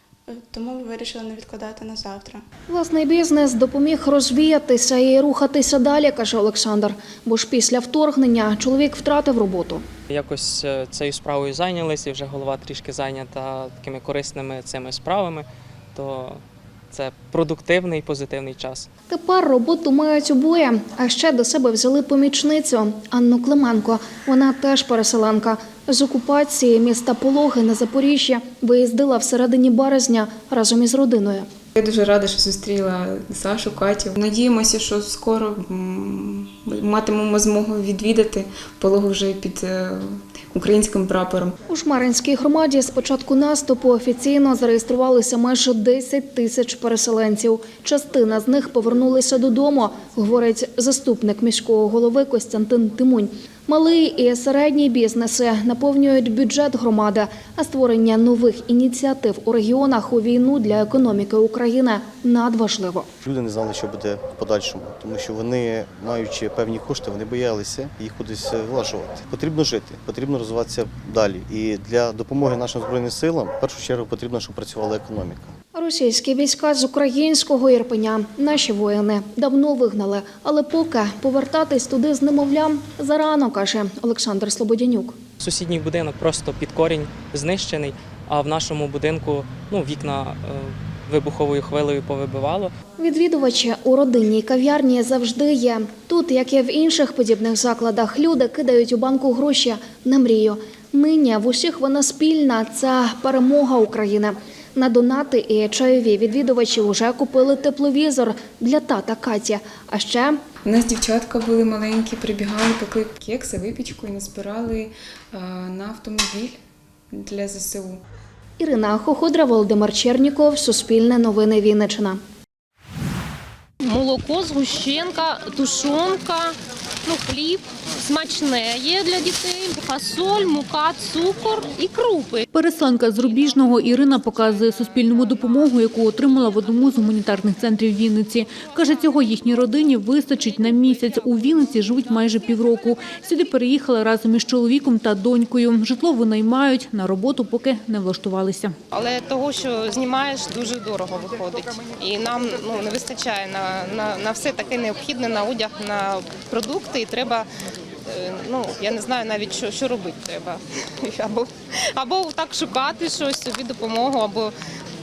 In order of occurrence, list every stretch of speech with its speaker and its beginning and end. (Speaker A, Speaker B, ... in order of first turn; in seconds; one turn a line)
Speaker A: 0.3-2.4
Speaker B: 2.7-9.8
Speaker C: 10.1-18.9
Speaker B: 19.1-31.5
Speaker D: 31.8-41.5
Speaker B: 41.7-63.1
Speaker E: 63.2-75.5
Speaker B: 75.7-85.2
Speaker C: 85.4-92.7
Speaker B: 93.0-110.4
Speaker D: 110.6-116.6
Speaker D: 117.1-118.0
Speaker B: 118.6-122.2
Speaker F: 123.8-126.5
Speaker F: 127.0-132.4
Speaker G: 132.5-148.8
Speaker F: 148.9-157.5
Speaker F: 158.1-164.5